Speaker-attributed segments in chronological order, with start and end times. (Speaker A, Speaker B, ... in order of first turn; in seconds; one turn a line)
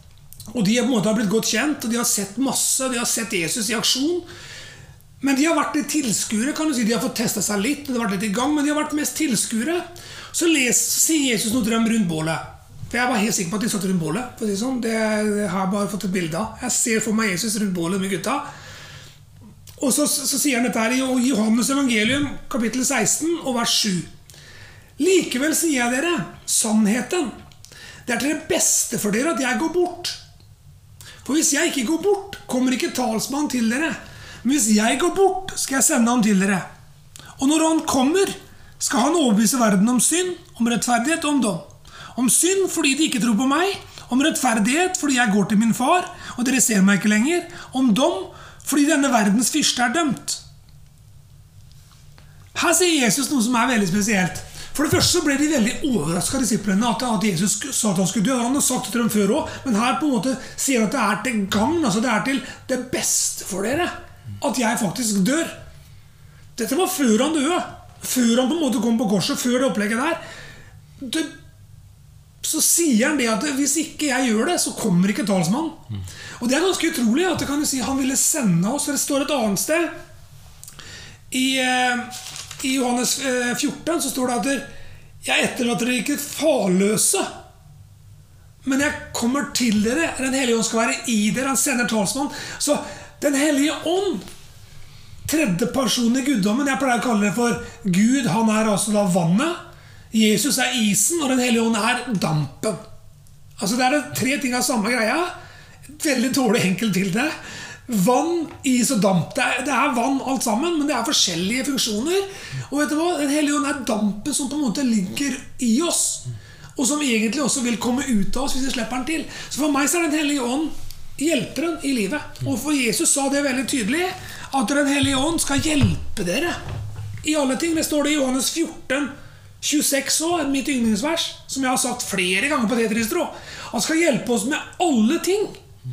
Speaker A: 0.5-4.3
Speaker A: 5.2-18.5
Speaker A: 19.8-24.1
Speaker A: 25.0-27.3
Speaker A: 28.1-30.2
Speaker A: 31.2-36.7
Speaker A: 37.4-50.4
Speaker A: 52.5-65.5
Speaker A: 66.6-70.2
Speaker A: 71.0-71.3
Speaker A: 72.4-75.8
Speaker A: 76.4-79.9
Speaker A: 81.3-84.7
Speaker A: 85.2-87.3
Speaker A: 88.6-94.2
Speaker A: 95.3-99.6
Speaker A: 100.1-102.8
Speaker A: 103.6-105.3
Speaker A: 105.9-107.3
Speaker A: 107.9-126.6
Speaker A: 127.2-135.6